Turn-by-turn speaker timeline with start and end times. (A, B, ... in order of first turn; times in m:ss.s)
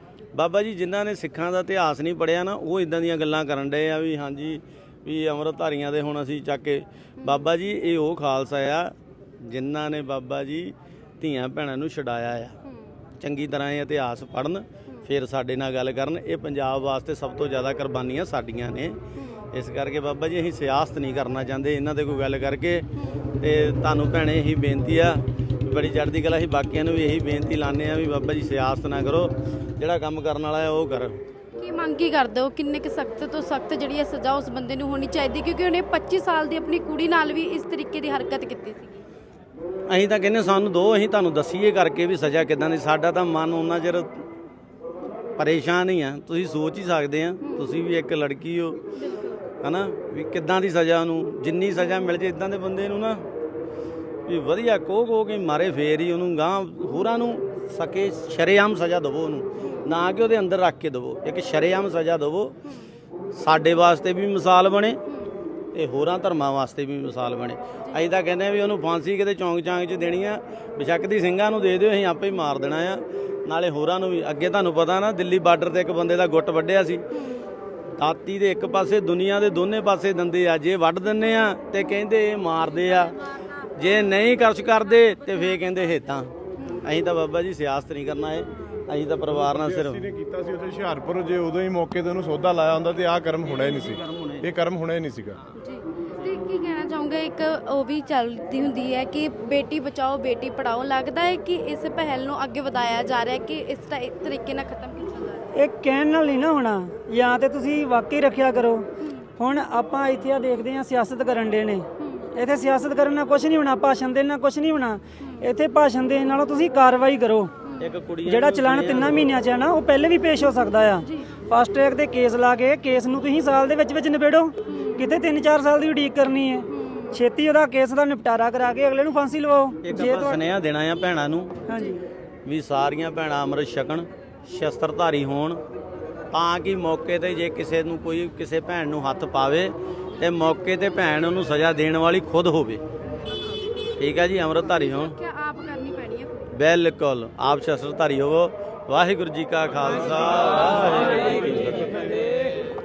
0:00.3-0:12.6 A
0:07.2-0:07.5 B
0:12.6-0:12.9 B
0:13.2-0:22.9 A
0:19.2-0:19.5 B
0:23.4-0:31.2 A
0:31.6-0:39.0 B
0:39.9-0:44.2 A
0:45.4-0:48.8 A
0:47.4-0:47.8 B
0:49.0-0:49.4 B
0:49.6-0:53.2 A
0:54.3-1:02.5 A
1:02.6-1:02.9 B
1:03.3-1:05.0 A
1:05.7-1:17.0 A
1:17.1-1:17.5 B
1:18.0-1:23.2 A
1:23.8-1:30.1 A
1:25.0-1:25.6 B
1:26.6-1:26.9 B
1:29.4-1:35.4 C
1:33.4-1:34.5 A
1:35.5-1:45.5 B
1:45.5-1:48.8 D
1:49.0-1:49.3 B
1:49.4-1:57.5 D
1:52.0-1:52.3 B
1:55.2-1:55.4 B
1:57.8-1:59.3 A
1:58.2-2:10.4 D
2:01.0-2:01.3 B
2:04.7-2:05.1 B
2:06.7-2:07.1 B
2:09.8-2:11.6 A
2:11.7-2:12.0 D
2:12.4-2:15.6 A
2:16.3-2:22.8 A
2:24.0-2:25.2 A
2:24.6-2:26.5 B
2:26.5-2:32.2 A